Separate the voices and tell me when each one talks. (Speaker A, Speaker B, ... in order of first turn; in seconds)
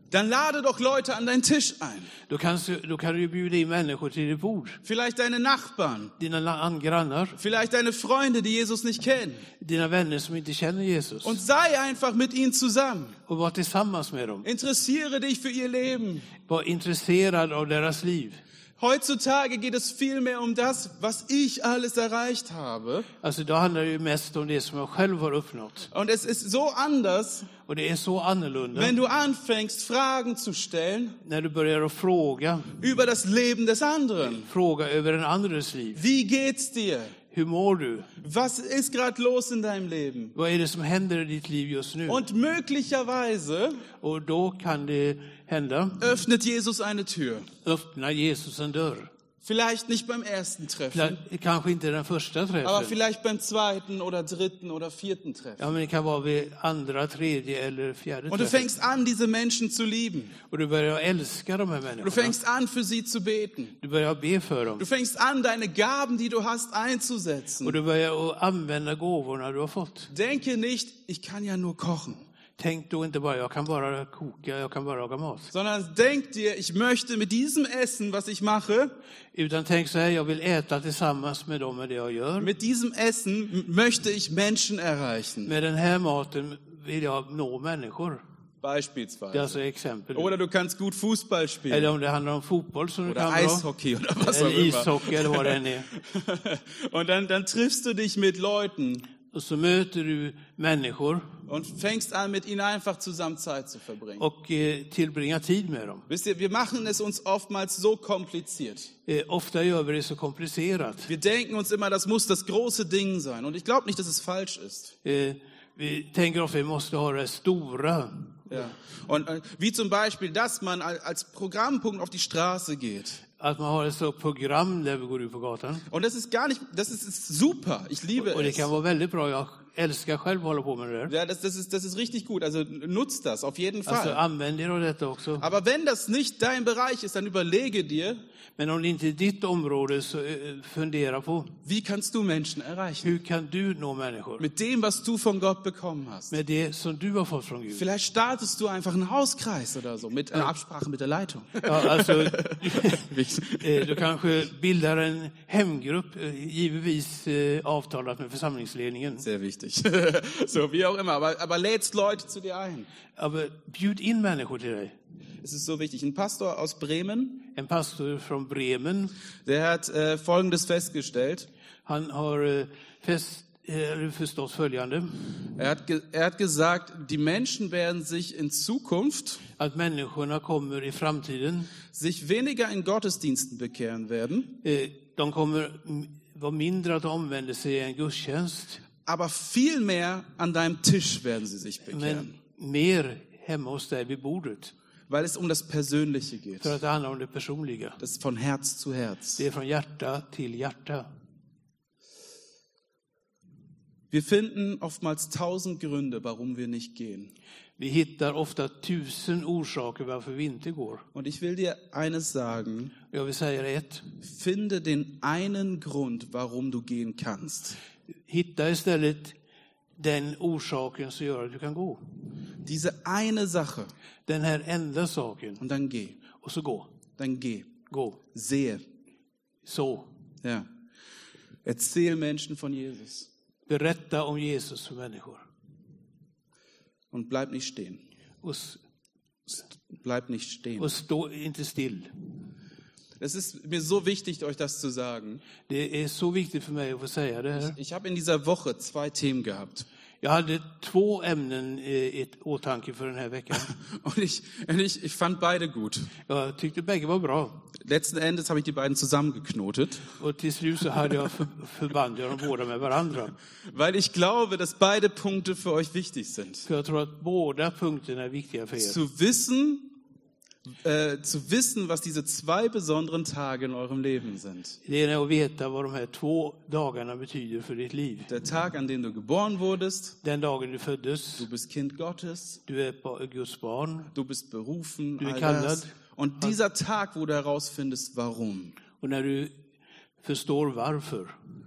Speaker A: 0.1-2.1, 4.8-6.1, 7.4-9.5, 11.2-13.2, 14.4-16.3, 18.8-23.1, 25.9-27.5, 28.7-31.2, 32.8-34.5, 36.0-37.1, 38.2-40.3, 42.1-43.9, 46.0-47.5, 49.4-51.2, 52.6-55.6, 58.3-60.4, 62.0-63.8, 64.8-67.8, 70.1-72.2, 75.5-78.9, 82.4-85.5, 88.6-89.6, 90.1-91.9, 93.0-99.1, 101.5-104.2, 106.1-108.9, 111.1-114.9, 118.5-123.2, 125.9-128.7, 131.1-134.2, 135.4-138.2, 141.6-143.1, 144.4-146.4, 147.7-154.0, 159.2-162.9, 165.4-167.4, 169.4-171.5, 175.6-179.4, 181.9-184.6, 189.0-192.3, 195.1-196.8, 198.0-199.4, 204.1-207.3, 211.1-213.0, 214.2-217.8, 222.6-223.9, 225.6-226.2, 227.2-227.7, 228.3-228.8, 231.6-233.3, 237.1-238.0, 240.0-240.9, 243.2-245.4, 247.6-249.8, 253.8-256.1, 257.8-260.1, 263.7-266.7, 268.8-269.9, 270.8-274.8, 278.3-280.2, 281.4-282.6, 284.1-288.8
Speaker B: 2.3-4.8, 6.2-7.4, 9.6-11.4, 13.3-14.4, 16.5-18.4, 23.2-25.9, 27.6-28.9, 31.2-32.7, 34.2-36.0, 37.3-38.1, 40.3-42.2, 44.0-46.0, 47.6-49.1, 50.9-53.0, 55.6-58.7, 60.5-62.3, 63.8-64.8, 67.6-70.1, 72.6-75.5, 79.3-82.5, 85.5-88.2, 89.3-90.3, 91.7-93.7, 94.2-95.9, 99.3-101.3, 104.2-106.0, 109.0-111.1, 115.0-118.6, 123.4-125.8, 128.2-131.1, 133.8-135.4, 138.6-141.5, 143.0-144.4, 146.3-147.8, 151.6-153.1, 153.6-159.2, 163.2-164.9, 167.5-169.1, 171.8-175.2, 179.6-181.7, 184.6-188.8, 191.9-194.7, 196.6-198.0, 199.4-201.1, 207.8-211.0, 213.1-214.0, 218.3-219.3, 220.0-222.0, 224.2-225.6, 226.3-226.9, 227.9-228.2, 229.6-230.1, 233.7-235.4, 238.4-238.8, 240.8-242.1, 245.7-247.8, 250.2-253.7, 256.2-257.6, 260.2-263.3, 266.6-269.0, 274.9-278.3, 280.2-281.5, 282.6-284.1, 285.2-285.9, 289.0-289.6, 290.2-291.3